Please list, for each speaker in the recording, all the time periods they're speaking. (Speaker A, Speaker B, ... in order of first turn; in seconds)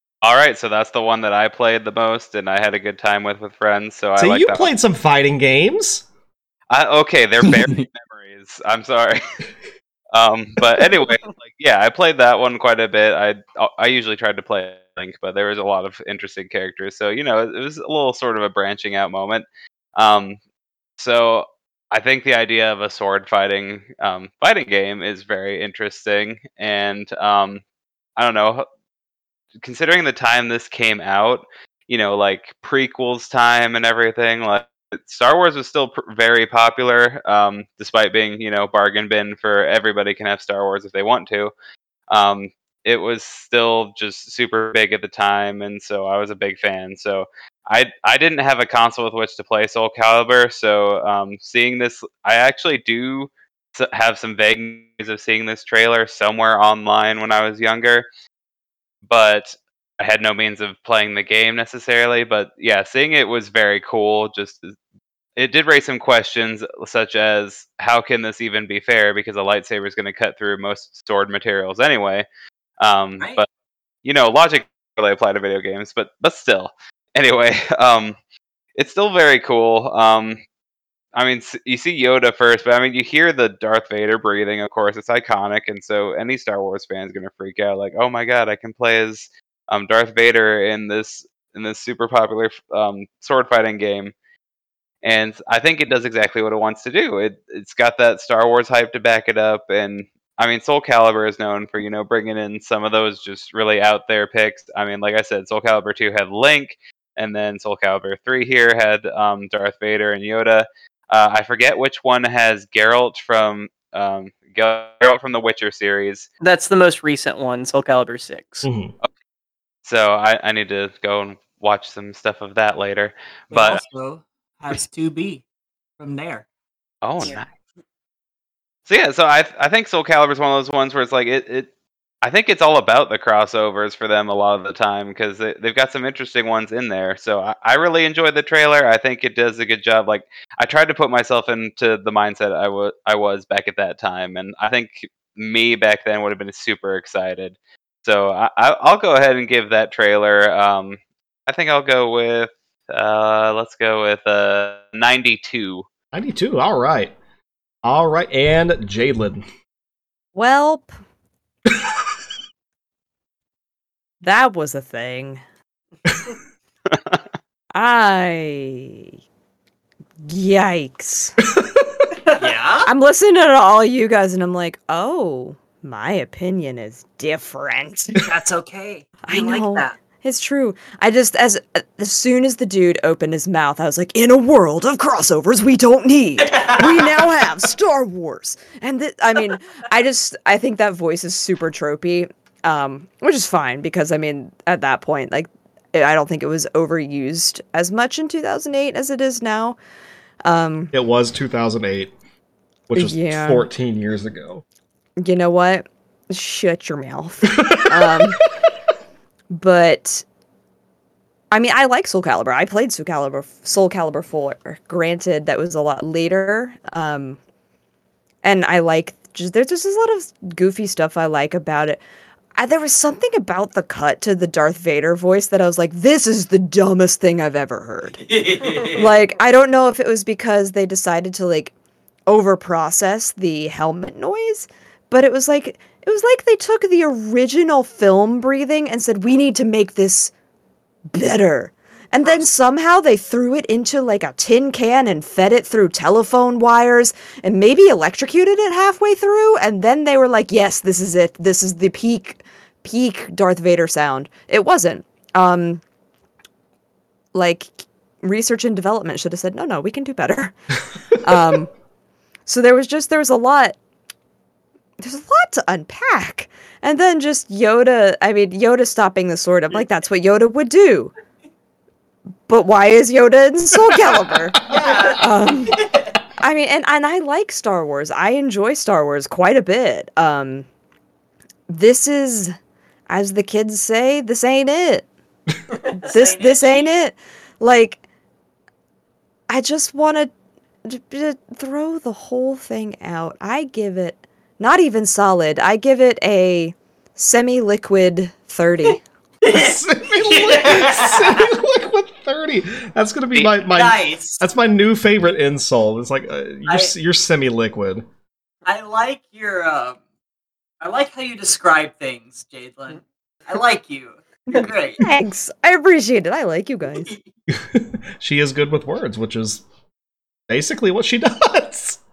Speaker A: 0.2-4.7, 6.7-9.2, 10.1-20.4, 21.0-27.6, 28.2-28.7, 29.6-41.5, 42.1-58.1, 59.1-64.8, 65.4-72.3, 72.8-73.5, 74.0-78.2, 78.8-80.4, 81.2-94.1, 95.0-116.3, 119.8-123.8, 127.0-127.5, 128.9-131.7, 132.2-155.9, 166.9-167.2
Speaker B: 4.2-6.0, 118.6-118.9, 156.1-157.1, 157.8-159.4, 171.6-171.8, 200.9-202.1, 202.9-204.6, 207.7-208.2, 299.5-308.1, 317.5-319.6, 320.5-322.0
Speaker C: 7.5-7.8, 123.5-125.4, 126.0-126.5, 172.3-172.9, 178.2-180.0, 186.5-187.1, 228.2-229.1, 286.0-286.9, 303.4-304.4, 306.7-306.9, 308.7-310.0, 310.8-315.1
Speaker D: 116.4-118.7, 274.7-275.1, 299.5-299.7, 300.3-301.1
Speaker E: 160.3-160.9, 164.2-165.4, 167.7-169.1, 170.2-171.4, 172.8-178.2, 179.2-199.8, 200.4-200.9, 203.0-203.7, 205.2-208.4, 209.5-210.2, 211.5-217.4, 218.4-222.0, 222.6-228.2, 228.9-231.7, 232.3-240.3, 241.1-255.8, 257.3-260.6, 261.2-261.7, 262.5-263.8, 265.0-271.1, 272.5-275.8, 276.4-280.7, 281.7-282.6, 283.1-285.1, 286.0-288.0, 289.5-290.3, 290.9-299.0, 315.0-317.1